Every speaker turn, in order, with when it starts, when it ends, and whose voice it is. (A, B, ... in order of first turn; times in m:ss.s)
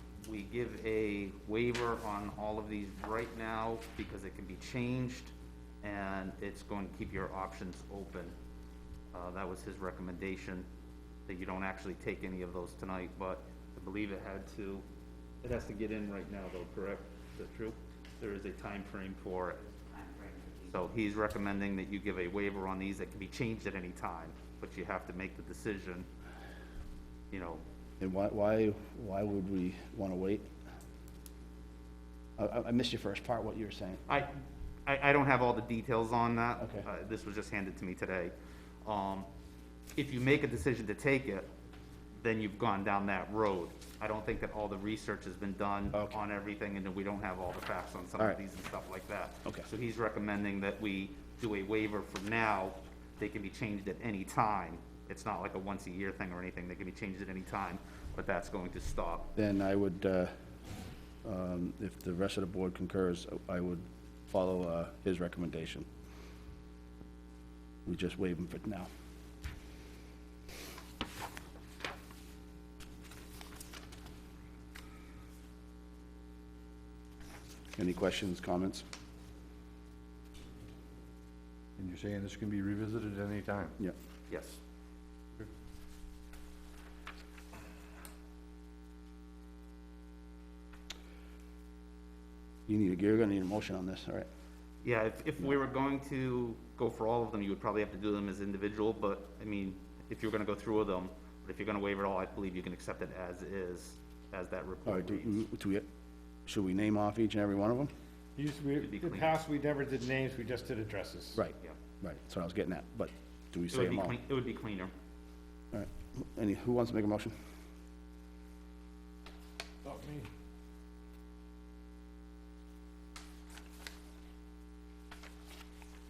0:00.2-0:08.3 A
0:09.1-0:10.6 A
0:11.3-0:14.8 A
0:15.4-0:26.1 A
0:27.3-0:27.6 A
0:28.0-0:30.5 B
0:32.4-0:34.0 B
0:34.1-0:34.3 A
0:34.8-0:39.3 A
0:40.0-0:41.5 A
0:42.2-0:59.3 A
0:45.9-0:46.2 B
0:59.4-1:00.3 B
1:01.2-1:05.8 B
1:07.8-1:08.9 B
1:17.8-1:18.8 B
1:21.8-1:23.8 C
1:24.3-1:24.6 A
1:32.7-1:34.2 B
1:34.8-1:45.3 A
1:44.8-1:45.8 B
1:46.4-1:47.9 B
1:48.4-1:51.4 D
1:48.8-1:49.4 A
1:51.4-1:54.2 B
1:53.7-1:54.9 A
1:55.7-1:57.3 B
1:59.8-2:00.3 D